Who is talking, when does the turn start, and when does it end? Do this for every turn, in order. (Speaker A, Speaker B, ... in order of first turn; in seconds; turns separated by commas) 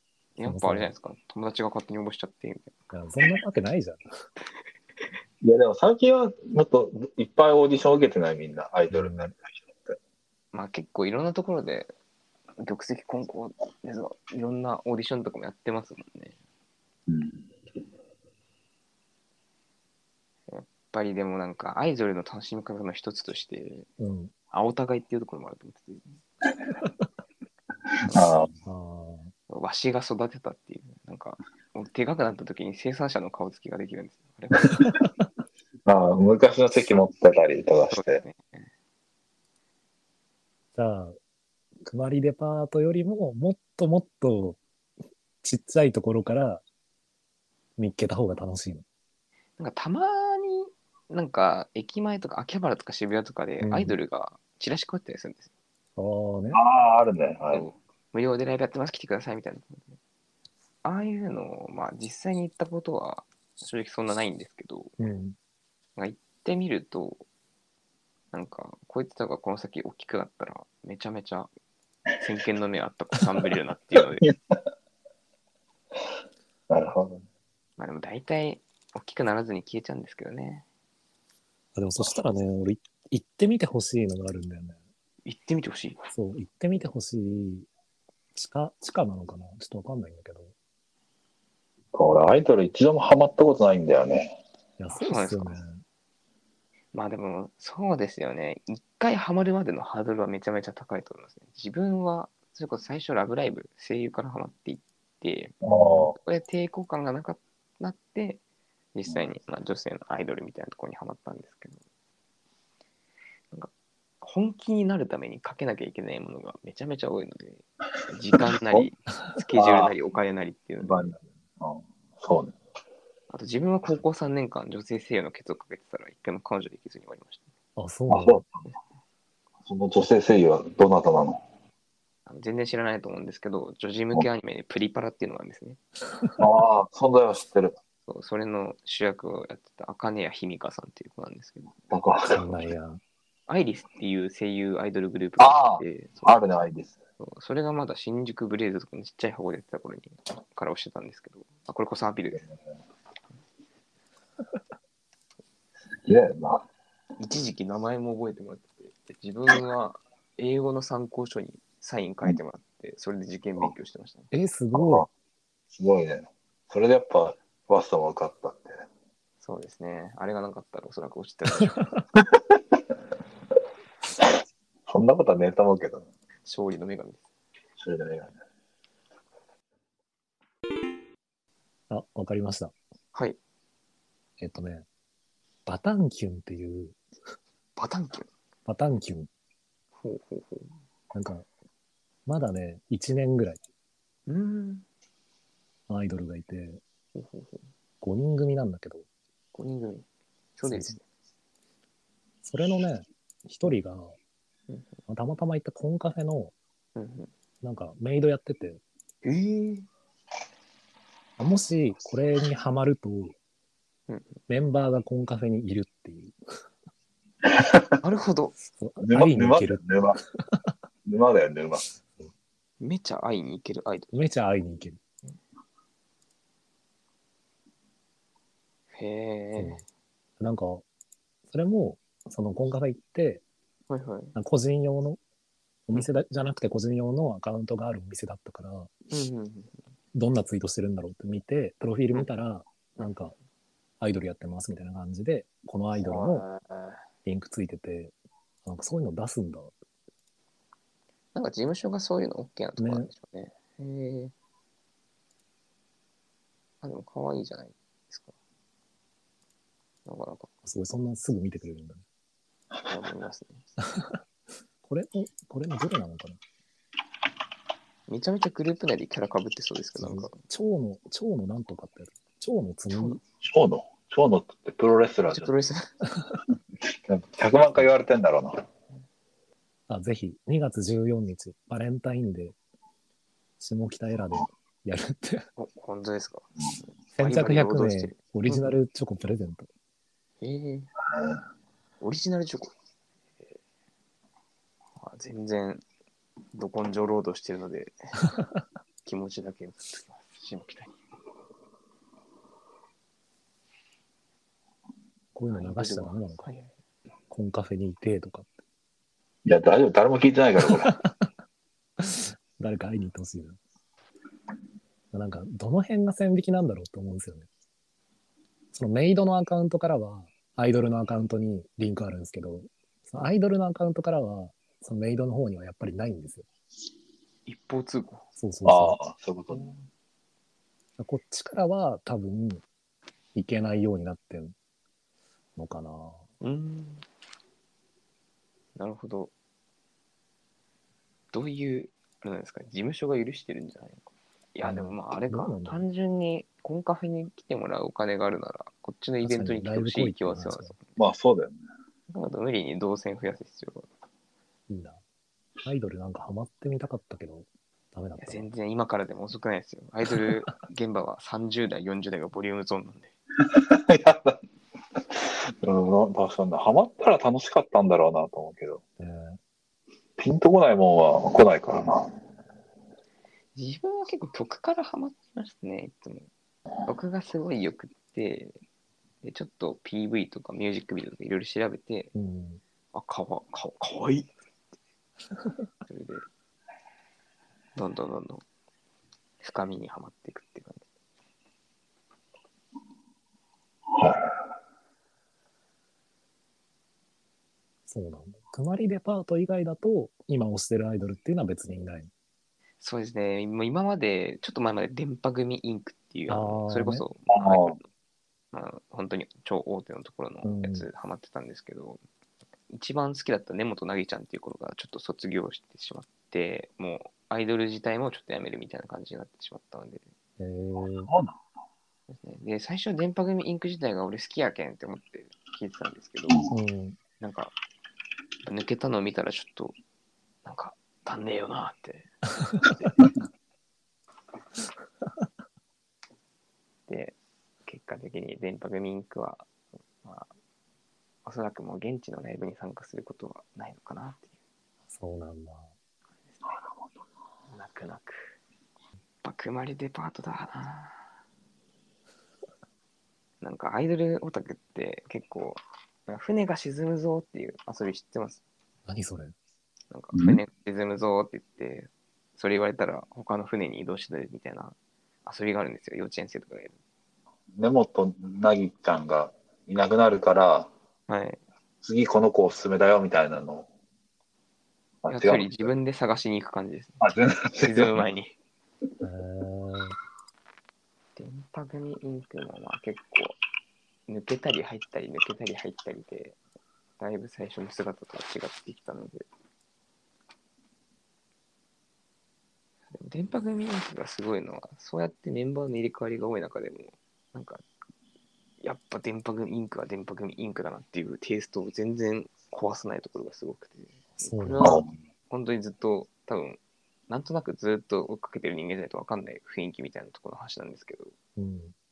Speaker A: 0.4-2.8, Speaker B: 0.4-0.9, Speaker B: 2.9-4.0, Speaker C: 5.4-9.9, Speaker B: 8.9-9.3, Speaker A: 10.5-11.9, Speaker A: 12.6-16.4, Speaker C: 17.1-17.5, Speaker A: 20.5-23.9, Speaker B: 24.0-24.3, Speaker A: 24.5-26.2, Speaker C: 28.1-28.5, Speaker B: 28.6-29.3, Speaker A: 29.5-34.9, Speaker C: 35.9-38.2, Speaker A: 37.9-38.6, Speaker B: 40.7-41.2, Speaker B: 41.8-44.6, Speaker B: 45.4-46.6, Speaker B: 47.8-48.8, Speaker A: 49.6-55.5, Speaker B: 53.6-54.0, Speaker B: 56.0-56.6, Speaker C: 56.5-57.7, Speaker A: 57.5-60.0, Speaker A: 60.8-64.9, Speaker B: 65.0-65.3, Speaker A: 66.0-67.2, Speaker A: 68.3-71.5, Speaker A: 72.2-74.2, Speaker C: 74.2-74.5, Speaker C: 76.7-77.2, Speaker A: 77.8-80.7, Speaker B: 81.7-84.8, Speaker A: 85.2-86.0, Speaker B: 86.1-87.7, Speaker B: 88.3-90.5, Speaker C: 91.9-94.4, Speaker B: 94.8-95.8, Speaker A: 94.9-95.6, Speaker A: 96.9-108.4, Speaker C: 105.6-106.2, Speaker A: 108.9-111.8, Speaker A: 113.5-121.1, Speaker C: 119.5-119.9, Speaker C: 120.8-122.5, Speaker A: 123.3-127.5, Speaker B: 127.8-128.4, Speaker C: 128.1-128.7, Speaker C: 129.7-131.4, Speaker A: 132.2-135.8, Speaker C: 136.4-137.8, Speaker A: 138.1-141.8, Speaker C: 141.9-142.7, Speaker B: 142.3-143.0, Speaker A: 143.5-146.4, Speaker C: 145.4-146.9, Speaker A: 147.2-152.4, Speaker C: 156.0-156.7, Speaker A: 157.2-164.3, Speaker B: 164.3-165.1, Speaker C: 164.7-165.1, Speaker C: 165.7-168.8, Speaker A: 169.4-171.8, Speaker C: 174.9-176.1, Speaker A: 176.4-177.2, Speaker C: 177.8-178.3, Speaker B: 181.9-182.7, Speaker B: 184.4-184.8, Speaker B: 185.7-187.0, Speaker A: 187.8-188.3, Speaker B: 188.7-189.3, Speaker A: 190.0-190.7, Speaker B: 191.1-191.4, Speaker B: 192.3-193.6, Speaker A: 194.3-194.8, Speaker B: 195.9-196.8, Speaker A: 197.1-197.7, Speaker B: 198.0-199.0, Speaker A: 199.5-200.1, Speaker A: 200.6-201.0, Speaker B: 200.7-201.0, Speaker B: 202.4-204.2, Speaker B: 205.1-206.5, Speaker A: 206.9-207.3, Speaker B: 207.6-208.8, Speaker A: 209.2-209.9, Speaker B: 211.4-213.3, Speaker A: 214.1-214.3, Speaker B: 214.5-216.3, Speaker C: 217.4-218.0, Speaker A: 218.0-218.5, Speaker B: 218.7-219.8, Speaker C: 219.0-220.2, Speaker C: 221.1-221.8, Speaker A: 222.8-224.1, Speaker B: 224.1-225.0, Speaker A: 228.9-229.8, Speaker B: 229.6-229.8, Speaker B: 230.4-230.8, Speaker B: 231.5-233.4, Speaker A: 233.9-234.3, Speaker B: 234.3-235.2, Speaker B: 235.9-238.9, Speaker A: 239.1-239.7, Speaker B: 240.1-243.3, Speaker B: 244.0-246.4, Speaker A: 246.0-247.0, Speaker B: 247.2-248.1, Speaker B: 248.6-249.7, Speaker A: 251.3-254.3, Speaker B: 252.8-253.1, Speaker A: 256.8-258.3, Speaker A: 260.1-260.5, Speaker B: 260.6-262.0, Speaker A: 262.9-263.7, Speaker B: 263.8-264.2, Speaker B: 264.8-266.4, Speaker A: 268.1-270.4, Speaker B: 270.0-273.2, Speaker A: 272.9-273.2, Speaker C: 273.4-275.5, Speaker A: 275.3-276.0, Speaker C: 276.9-278.6, Speaker B: 279.9-282.6, Speaker B: 283.6-285.5, Speaker A: 285.6-286.5, Speaker B: 287.1-289.7, Speaker A: 287.2-288.8, Speaker A: 290.4-290.9, Speaker C: 291.1-291.4, Speaker A: 292.0-292.7, Speaker A: 295.0-295.8, Speaker A: 296.5-298.1, Speaker A: 299.0-301.0, Speaker B: 305.3-306.4, Speaker A: 305.5-306.7, Speaker B: 307.3-308.6, Speaker C: 309.4-310.9, Speaker B: 310.6-311.3, Speaker B: 312.0-313.6, Speaker B: 315.1-317.5, Speaker B: 318.7-326.4, Speaker A: 327.4-328.2, Speaker B: 328.4-329.0, Speaker C: 328.6-329.7, Speaker A: 329.5-329.8, Speaker B: 331.0-332.6, Speaker B: 333.3-334.5, Speaker B: 335.6-336.2, Speaker A: 336.4-337.0, Speaker A: 338.8-339.3, Speaker A: 341.3-351.0, Speaker B: 344.6-345.8, Speaker B: 349.2-350.7, Speaker C: 351.0-351.6, Speaker A: 352.1-353.9, Speaker B: 354.7-355.0, Speaker B: 355.6-358.5, Speaker A: 358.2-363.1, Speaker C: 363.5-364.4, Speaker C: 365.1-368.8, Speaker B: 369.0-369.4, Speaker C: 370.2-372.1, Speaker A: 373.5-376.3, Speaker A: 376.9-378.6, Speaker A: 379.2-382.1, Speaker B: 382.1-382.6, Speaker A: 382.9-384.3, Speaker A: 385.9-386.2, Speaker A: 387.8-388.4, Speaker A: 389.4-390.9, Speaker C: 393.9-394.3, Speaker B: 397.9-402.1, Speaker A: 402.8-407.8, Speaker B: 406.3-407.0, Speaker C: 407.3-407.8, Speaker A: 408.5-412.0, Speaker B: 410.4-410.9, Speaker A: 412.7-420.1, Speaker B: 420.4-421.1, Speaker C: 421.1-421.4, Speaker A: 422.1-426.4, Speaker B: 426.5-427.0, Speaker A: 427.2-427.5, Speaker A: 428.4-429.8, Speaker A: 430.4-433.0, Speaker A: 436.9-439.5, Speaker A: 440.0-440.3, Speaker A: 441.2-444.3, Speaker B: 444.9-445.7, Speaker A: 447.5-448.3, Speaker A: 449.2-451.0, Speaker A: 453.4-458.4, Speaker B: 458.9-459.3, Speaker A: 459.9-466.8, Speaker C: 460.1-460.4, Speaker C: 467.6-470.7, Speaker A: 471.1-471.4, Speaker C: 471.8-473.7, Speaker C: 475.0-475.7, Speaker A: 475.1-478.3, Speaker C: 477.0-478.0, Speaker B: 479.0-479.9, Speaker A: 481.1-483.4, Speaker A: 484.1-486.4, Speaker A: 487.0-489.2, Speaker A: 492.9-497.6, Speaker A: 498.6-511.1, Speaker B: 504.2-504.7, Speaker C: 504.6-504.9, Speaker B: 511.4-511.7